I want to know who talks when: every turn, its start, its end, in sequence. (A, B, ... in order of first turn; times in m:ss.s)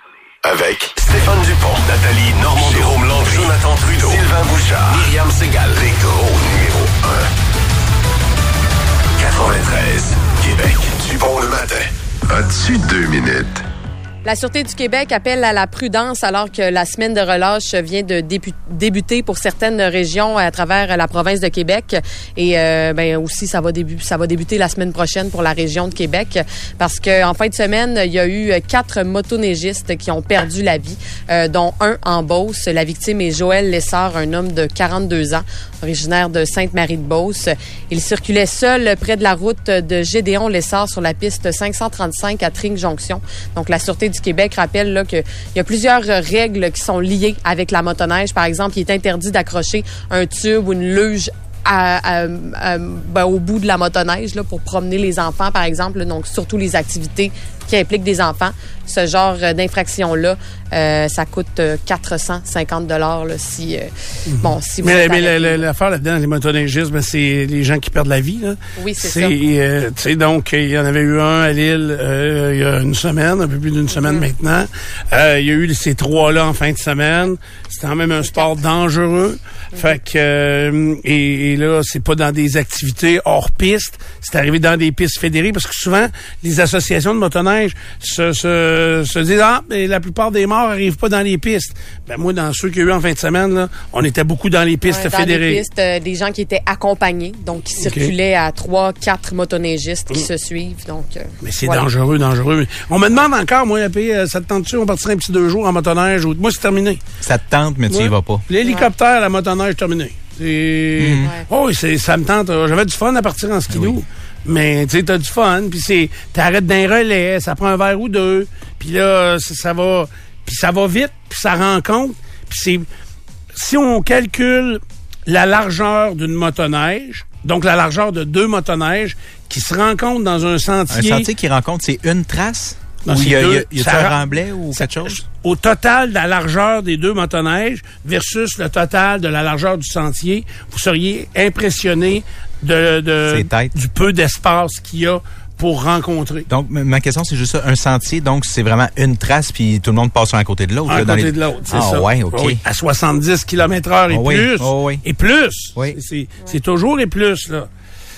0:00.4-0:07.3 A
0:09.2-0:13.6 A
0:14.2-1:05.7 B
1:04.3-1:35.6 C
1:08.8-1:09.4 B
1:13.9-1:14.2 B
1:34.8-1:41.8 B
1:37.8-1:38.1 C
1:41.4-1:47.0 C
1:47.2-1:48.4 D
1:47.9-2:02.9 C
1:48.6-1:48.9 B
1:51.0-1:51.3 D
1:53.7-1:54.0 D
2:03.6-2:11.3 C
2:10.9-2:15.2 D
2:13.1-2:26.5 C
2:23.3-2:23.7 D
2:26.5-2:32.6 D
2:30.9-2:37.7 C
2:34.1-2:35.0 D